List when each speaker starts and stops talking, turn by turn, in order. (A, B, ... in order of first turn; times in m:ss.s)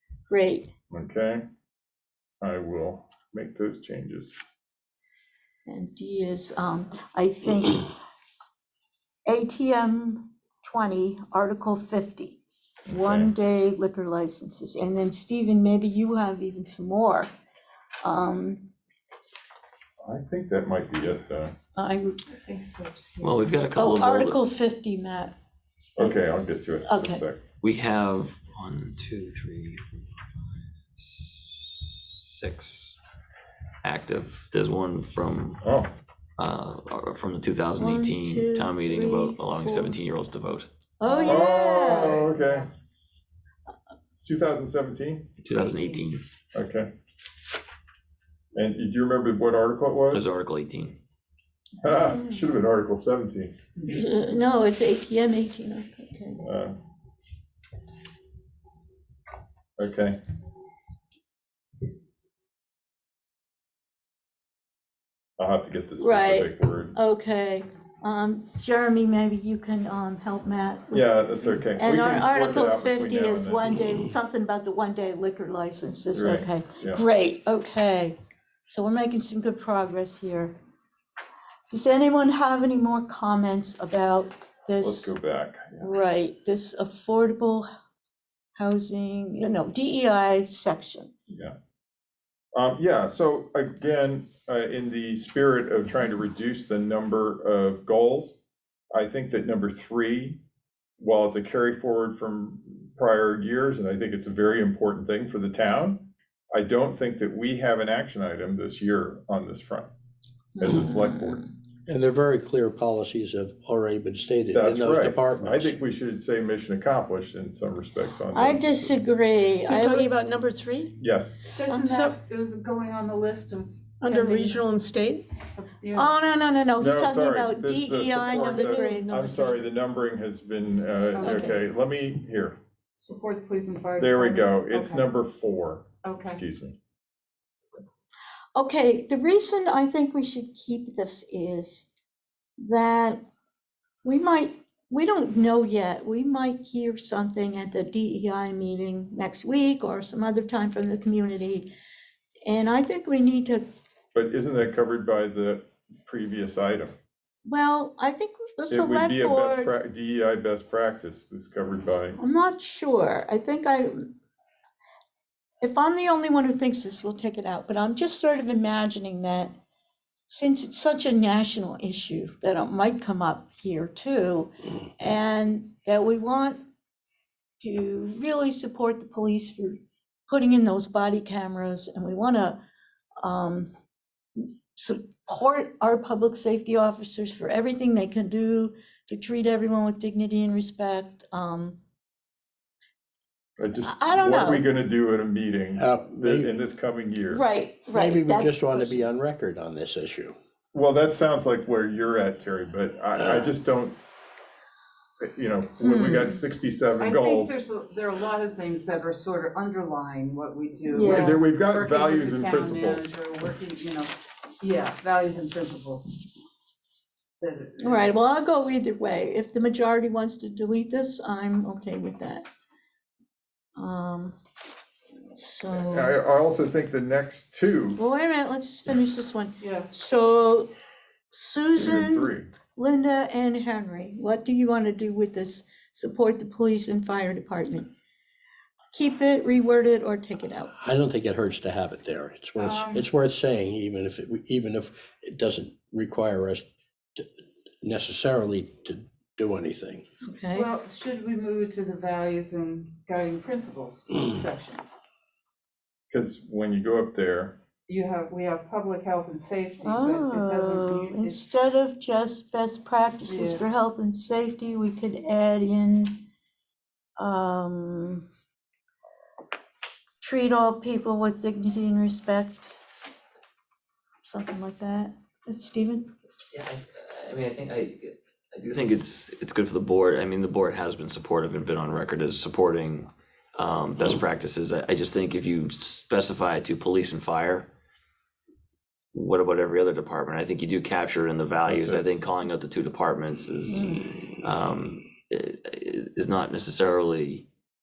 0:00.3-0:00.7 A
0:00.9-0:01.4 B
0:02.4-0:04.3 B
0:05.6-0:07.9 A
0:09.2-0:17.3 A
0:12.9-0:13.3 B
0:18.0-0:18.7 A
0:20.0-0:21.5 B
0:21.8-0:22.2 A
0:22.3-0:23.5 C
0:23.2-0:24.4 D
0:23.8-0:25.3 A
0:26.0-0:27.4 B
0:26.8-0:27.2 A
0:27.6-0:29.8 D
0:30.9-0:33.0 D
0:33.8-0:35.6 D
0:35.6-0:35.9 B
0:36.4-0:40.7 D
0:37.8-0:40.0 A
0:41.0-0:42.4 A
0:41.0-0:42.4 C
0:41.2-0:42.7 B
0:44.2-0:45.3 B
0:45.4-0:46.2 D
0:45.7-0:46.0 C
0:46.5-0:46.9 B
0:48.5-0:50.2 B
0:50.1-0:51.0 D
0:51.8-0:53.5 B
0:53.9-0:56.4 A
0:56.4-0:56.8 B
0:59.8-1:00.2 B
1:05.4-1:06.9 B
1:06.0-1:11.1 A
1:10.9-1:13.8 B
1:11.7-1:18.2 A
1:16.1-1:17.0 B
1:18.7-1:20.5 A
1:21.7-1:25.1 A
1:24.8-1:26.0 B
1:25.8-1:27.7 A
1:28.6-1:31.1 A
1:31.3-1:31.5 B
1:32.5-1:38.4 B
1:38.9-1:40.4 B
1:41.0-1:49.9 B
1:50.6-1:51.5 A
1:50.6-1:51.4 B
1:51.9-1:55.7 E
1:54.5-1:59.0 B
1:58.3-2:00.2 A
1:59.7-2:00.9 F
2:01.0-2:01.4 B
2:01.5-2:04.6 C
2:01.6-2:02.2 A
2:04.0-2:05.2 F
2:05.5-2:06.1 C
2:05.9-2:09.6 A
2:06.8-2:12.6 B
2:08.4-2:09.0 F
2:11.1-2:11.6 C
2:13.0-2:15.1 C
2:14.0-2:16.8 B
2:16.0-2:16.4 C
2:18.5-2:21.9 A
2:22.6-2:23.2 A
2:24.0-2:31.7 A
2:32.4-2:33.6 A
2:34.1-2:36.9 B
2:37.4-2:39.7 A
2:38.7-2:42.2 B
2:42.2-2:44.1 A
2:45.6-2:49.6 A
2:50.3-2:56.6 A
2:57.6-3:02.6 A
3:03.2-3:03.7 A
3:04.4-3:11.8 A
3:13.6-3:17.4 B
3:13.8-3:14.7 A
3:15.8-3:16.5 E
3:17.3-3:19.1 A
3:17.9-3:20.4 E
3:20.7-3:24.0 B
3:25.2-3:27.6 B
3:25.8-3:26.4 A
3:27.0-3:36.2 C
3:30.9-3:31.4 A
3:31.0-3:33.2 B
3:37.4-3:38.2 C
3:37.8-3:42.4 A
3:43.8-3:44.4 A
3:45.4-3:46.2 A
3:45.7-3:48.0 B
3:48.0-3:50.7 A
3:49.6-3:49.9 C
3:51.3-3:57.9 A
3:51.8-3:52.5 B
3:58.9-4:00.7 A
4:00.8-4:06.6 E
4:02.6-4:03.1 C
4:07.8-4:10.0 E
4:10.2-4:10.7 A
4:10.5-4:14.8 C
4:16.1-4:17.6 B
4:17.9-4:21.4 C
4:19.8-4:26.2 A
4:23.2-4:23.6 C
4:27.2-4:28.2 A
4:30.2-4:32.7 A
4:34.2-4:36.1 A
4:36.5-4:47.7 D
4:49.1-4:57.4 D
4:51.6-4:52.0 B
4:53.7-4:54.1 A